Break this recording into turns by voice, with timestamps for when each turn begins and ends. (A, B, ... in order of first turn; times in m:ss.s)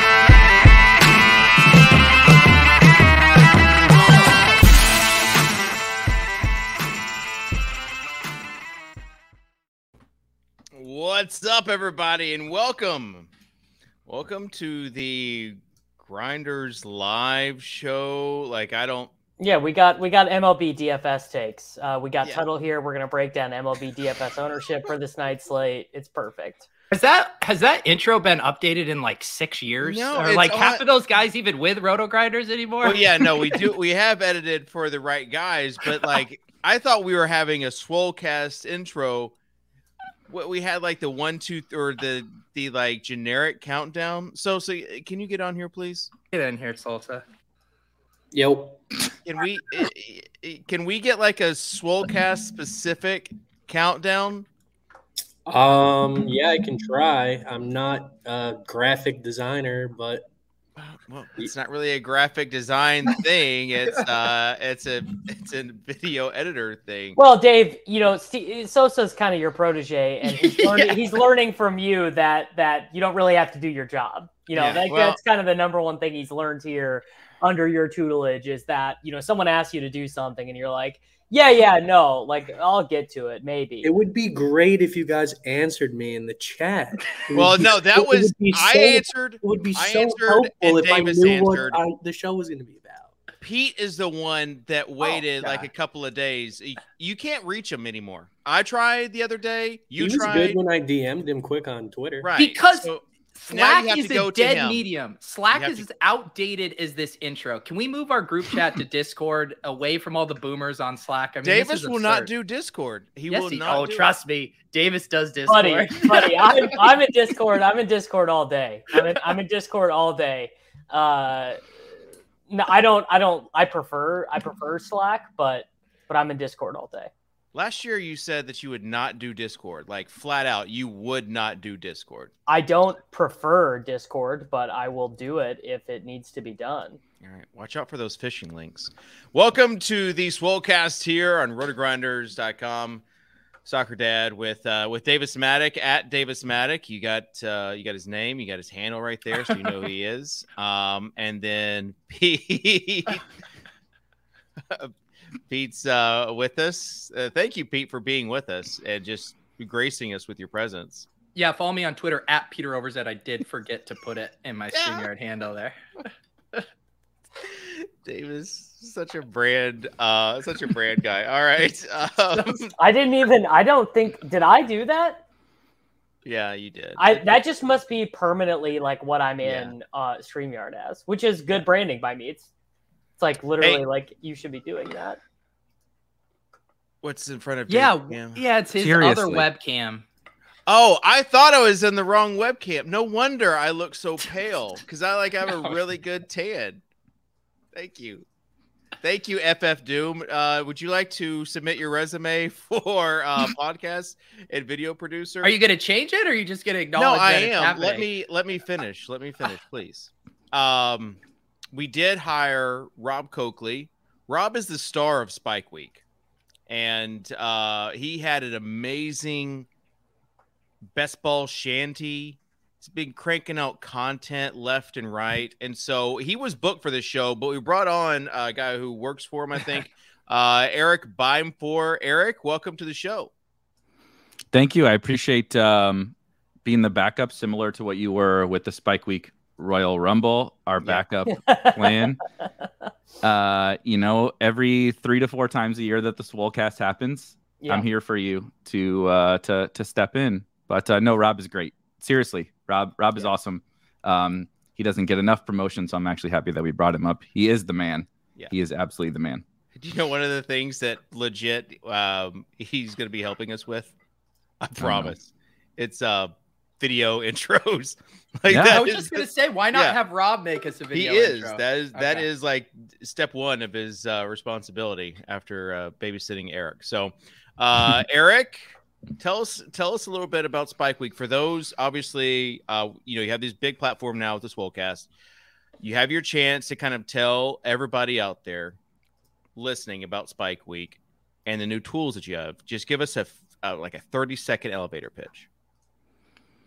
0:10.8-0:13.3 A
0:14.0-0:19.1 A
0:19.4-0:26.7 B
0:26.9-0:33.7 C
0:29.8-0:30.8 A
0:32.8-0:39.3 A
0:40.3-0:46.1 A
0:46.3-0:47.2 C
0:48.3-0:48.8 D
0:49.2-0:54.5 A
0:55.4-1:00.3 D
1:00.8-1:07.2 A
1:07.2-1:23.9 B
1:10.3-1:11.0 C
1:14.5-1:15.2 A
1:23.8-1:33.2 D
1:27.3-1:31.8 A
1:33.4-1:40.6 A
1:35.0-1:35.7 D
1:40.0-1:42.3 D
1:42.2-1:44.8 A
1:42.4-1:52.3 C
1:45.5-1:45.8 A
1:51.4-1:54.1 A
1:53.3-1:56.7 C
1:55.5-2:01.6 B
2:02.5-2:07.1 B
2:07.5-2:12.3 A
2:12.5-2:17.0 B
2:17.2-2:23.0 A
2:23.6-2:33.2 A
2:34.7-2:34.9 A
2:35.5-2:41.1 A
2:41.3-2:45.8 C
2:44.8-2:45.1 A
2:47.4-2:52.7 A
2:52.8-2:55.2 B
2:56.2-2:57.4 A
2:57.0-3:02.5 B
2:59.4-2:59.7 A
3:03.2-3:05.2 B
3:07.0-3:08.4 A
3:07.7-3:10.0 C
3:08.8-3:09.5 E
3:10.7-3:16.8 A
3:17.7-3:18.2 A
3:19.0-3:25.5 A
3:25.4-3:28.1 C
3:27.0-3:31.2 A
3:31.7-3:36.0 A
3:36.7-3:39.7 A
3:40.9-3:53.3 A
3:54.5-4:02.2 E
4:01.4-4:01.8 B
4:03.2-4:19.4 E
4:07.6-4:07.9 B
4:19.8-4:23.9 A
4:24.6-4:30.0 A
4:24.8-4:25.2 E
4:28.5-4:28.8 E
4:28.6-4:32.3 C
4:30.9-4:38.6 A
4:39.2-4:45.1 A
4:45.8-4:48.8 A
4:49.6-4:55.5 A